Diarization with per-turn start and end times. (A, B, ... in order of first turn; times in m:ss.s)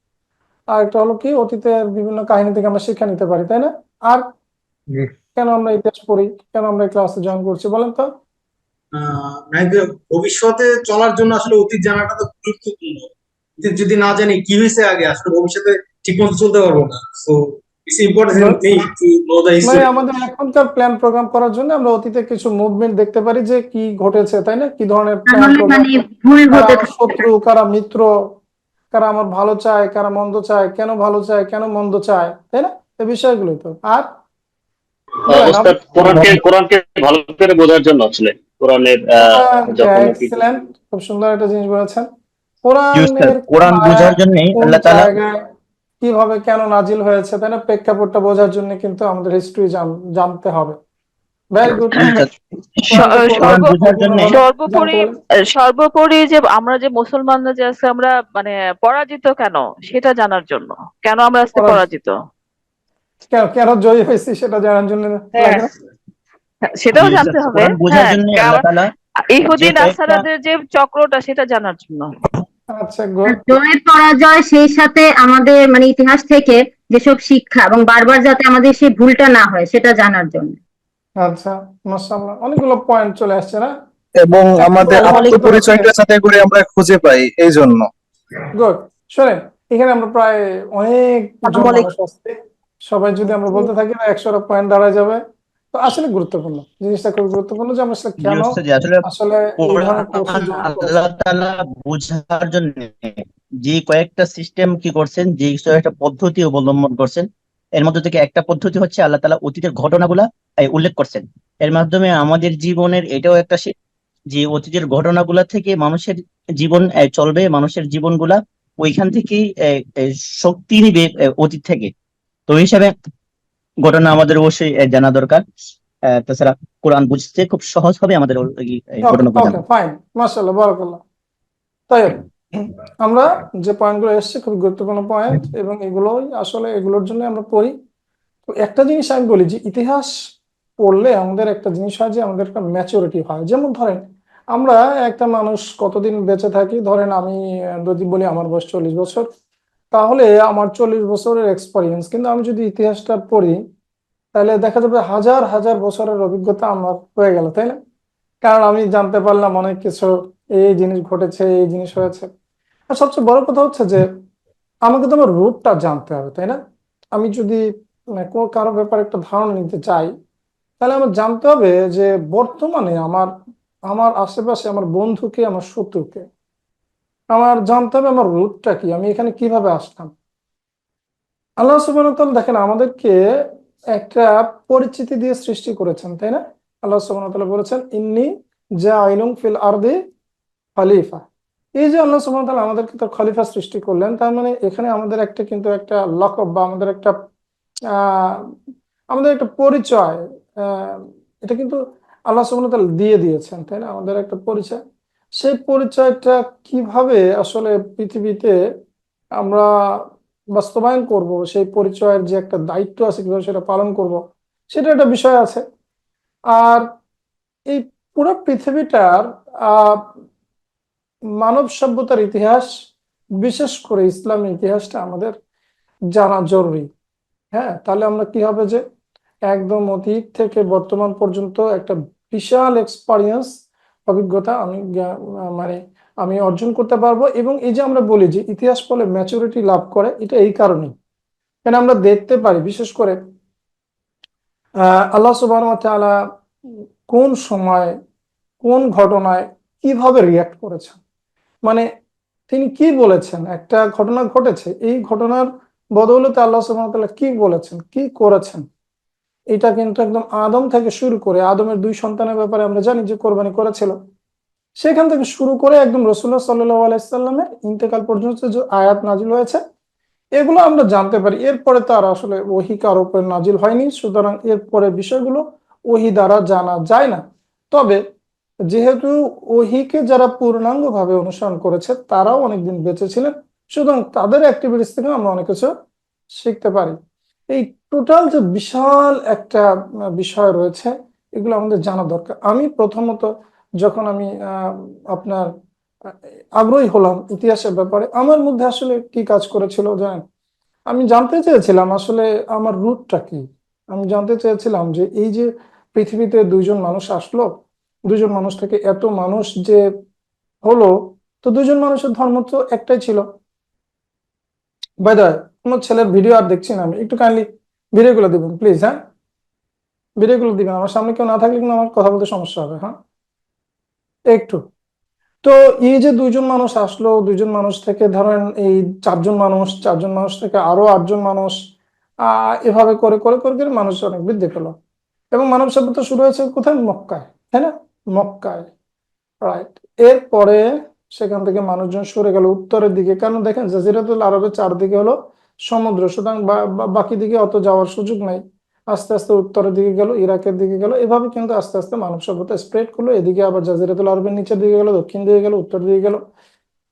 0:00.7-0:04.2 A
0:05.4-0:08.1 A
0:09.0-0:19.8 B
0:18.3-0:18.7 A
0:19.6-0:25.9 A
0:25.3-0:27.2 C
0:26.5-0:28.1 A
0:28.9-0:34.1 A
0:35.3-0:36.3 A
0:35.3-0:40.3 D
0:39.2-0:42.1 A
0:42.6-0:45.4 A
0:42.9-0:45.1 E
0:46.0-0:50.8 A
0:51.5-0:52.2 A
0:51.9-0:52.3 E
0:52.9-0:54.4 E
0:52.9-0:53.7 F
0:52.9-0:55.1 A
0:54.3-1:02.1 F
1:01.5-1:01.8 A
1:03.3-1:05.7 A
1:05.3-1:05.6 F
1:06.7-1:08.6 F
1:06.9-1:08.9 E
1:09.3-1:12.1 F
1:09.5-1:10.2 E
1:12.7-1:13.4 A
1:13.3-1:20.6 C
1:21.2-1:23.7 A
1:24.2-1:27.9 G
1:24.8-1:25.6 C
1:24.8-1:25.9 A
1:28.5-1:32.3 A
1:32.9-1:35.2 A
1:35.7-1:41.0 A
1:38.2-1:39.0 E
1:39.6-1:53.7 E
1:54.3-2:01.9 E
2:02.5-2:02.9 E
2:03.8-2:05.4 E
2:06.1-2:09.6 E
2:09.0-2:11.0 A
2:11.9-2:17.7 A
2:18.5-2:20.2 A
2:20.8-2:29.3 A
2:29.9-2:33.6 A
2:34.4-2:37.8 A
2:38.4-2:42.3 A
2:42.9-2:44.1 A
2:44.8-2:46.6 A
2:47.2-2:47.6 A
2:48.2-2:50.1 A
2:50.8-2:53.3 A
2:53.9-2:56.3 A
2:57.3-3:00.1 A
3:01.6-3:03.2 A
3:03.9-3:10.0 A
3:10.8-3:11.2 A
3:11.8-3:17.2 A
3:17.9-3:18.5 A
3:19.1-3:24.8 A
3:25.4-3:28.6 A
3:29.4-3:29.7 A
3:30.5-3:34.2 A
3:34.7-3:35.6 A
3:36.5-3:36.8 A
3:37.7-3:40.1 A
3:41.4-3:42.7 A
3:43.4-3:45.3 A
3:46.1-3:46.9 A
3:47.5-3:48.8 A
3:49.5-3:53.5 A
3:54.1-4:00.9 A
4:01.6-4:03.2 A
4:04.8-4:06.2 A
4:07.1-4:07.9 A
4:08.6-4:11.0 A
4:12.5-4:18.6 A
4:19.5-4:24.0 A
4:24.8-4:29.6 A
4:30.4-4:38.0 A
4:38.7-4:45.7 A
4:46.4-4:47.0 A
4:47.5-4:55.5 A
4:56.6-5:00.2 A
5:00.9-5:07.5 A
5:08.1-5:09.8 A
5:10.6-5:13.2 A
5:15.0-5:19.0 A
5:20.2-5:22.9 A
5:24.3-5:24.6 A
5:25.4-5:31.6 A
5:32.2-5:34.7 A
5:35.3-5:38.7 A
5:39.4-5:45.2 A
5:45.7-5:56.2 A